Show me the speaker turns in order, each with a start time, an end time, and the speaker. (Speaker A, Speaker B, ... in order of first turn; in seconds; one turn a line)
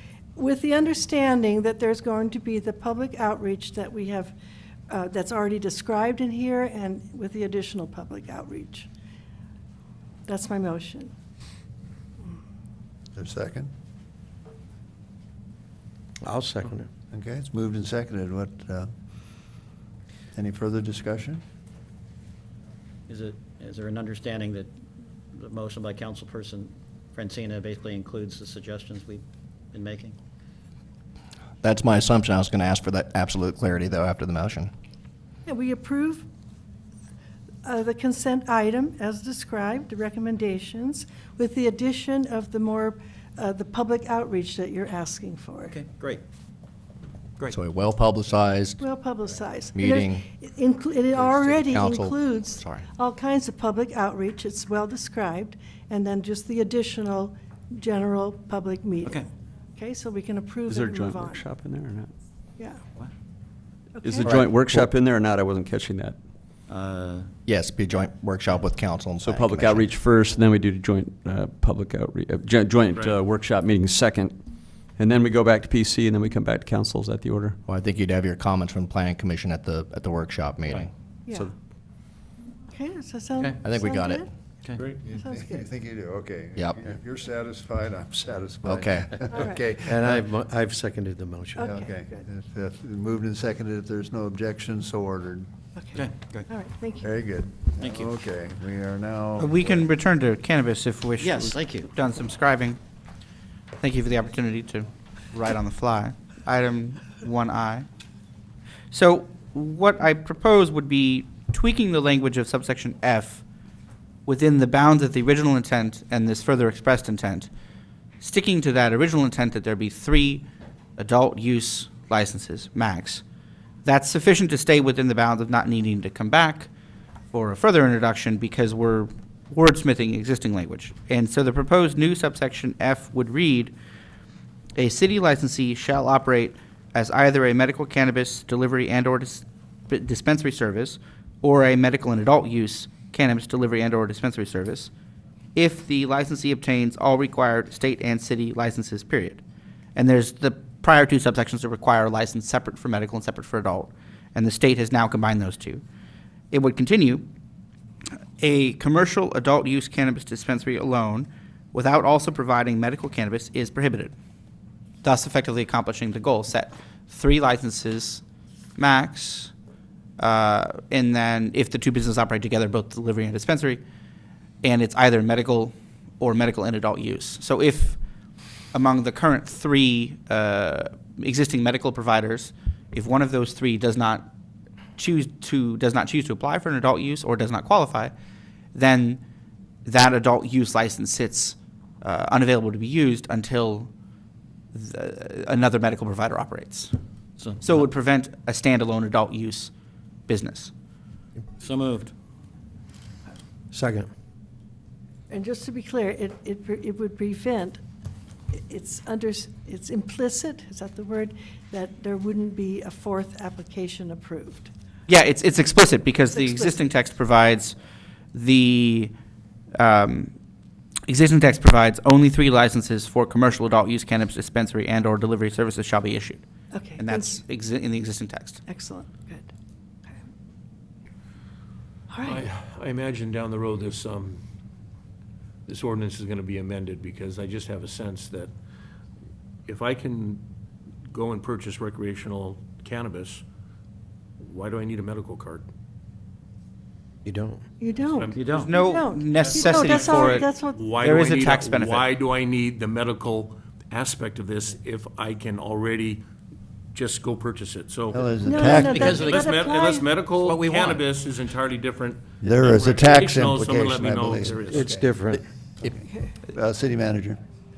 Speaker A: 0.4-4.3
Speaker A: 4.9-8.9
Speaker A: 10.3-11.1
Speaker B: 13.2-13.7
Speaker C: 16.2-16.9
Speaker B: 17.1-18.9
Speaker B: 20.3-21.4
Speaker D: 23.1-24.7
Speaker D: 25.4-30.2
Speaker E: 31.6-34.7
Speaker A: 35.5-36.3
Speaker A: 37.6-45.8
Speaker D: 45.6-46.2
Speaker E: 47.5-48.8
Speaker A: 48.8-61.5
Speaker E: 49.8-50.2
Speaker E: 51.2-52.9
Speaker F: 60.7-62.1
Speaker A: 64.0-64.5
Speaker F: 64.0-66.2
Speaker D: 66.7-67.3
Speaker E: 67.5-69.9
Speaker F: 69.2-74.4
Speaker F: 75.0-77.6
Speaker E: 77.7-80.9
Speaker A: 81.3-81.5
Speaker A: 82.7-84.3
Speaker E: 83.6-84.2
Speaker D: 84.6-85.0
Speaker B: 84.9-90.3
Speaker A: 85.0-85.7
Speaker E: 88.6-89.2
Speaker A: 89.3-89.7
Speaker C: 89.4-91.6
Speaker A: 91.5-92.2
Speaker B: 91.6-95.5
Speaker A: 95.8-97.2
Speaker D: 95.9-96.5
Speaker B: 97.0-99.9
Speaker D: 97.8-98.1
Speaker G: 99.4-102.8
Speaker D: 101.2-101.9
Speaker G: 103.8-107.9
Speaker G: 108.9-113.4
Speaker G: 114.3-117.5
Speaker G: 118.2-120.5
Speaker G: 121.0-123.2
Speaker G: 123.8-126.7
Speaker G: 127.3-133.8
Speaker G: 134.8-144.9
Speaker G: 145.6-149.4
Speaker G: 150.0-155.8
Speaker G: 156.5-157.3
Speaker G: 158.4-164.1
Speaker G: 165.0-168.2
Speaker G: 168.8-169.5
Speaker G: 170.2-173.8
Speaker G: 174.6-178.0
Speaker G: 178.7-184.3
Speaker G: 185.0-188.1
Speaker G: 188.7-189.2
Speaker G: 189.9-193.9
Speaker G: 194.7-196.9
Speaker D: 197.4-197.8
Speaker G: 197.6-199.7
Speaker G: 200.3-200.7
Speaker D: 201.6-202.1
Speaker C: 203.7-204.1
Speaker A: 205.3-207.8
Speaker A: 208.5-214.7
Speaker G: 215.1-217.8
Speaker A: 216.3-216.8
Speaker G: 218.3-219.1
Speaker G: 219.8-220.3
Speaker G: 221.1-226.4
Speaker A: 226.7-227.4
Speaker G: 227.0-228.6
Speaker A: 228.7-229.5
Speaker A: 232.1-232.5
Speaker H: 232.2-234.4
Speaker H: 235.7-238.5
Speaker H: 239.7-240.5
Speaker H: 241.1-243.4
Speaker H: 244.4-245.7
Speaker C: 247.3-247.6
Speaker A: 247.8-251.0
Speaker H: 248.2-248.6
Speaker D: 248.4-248.7
Speaker G: 248.6-252.1
Speaker H: 249.4-256.2
Speaker H: 256.9-264.9
Speaker B: 258.1-259.0
Speaker A: 258.4-260.2
Speaker D: 258.7-259.4
Speaker D: 260.3-261.0
Speaker B: 262.4-265.1
Speaker C: 264.2-265.4
Speaker B: 265.8-267.4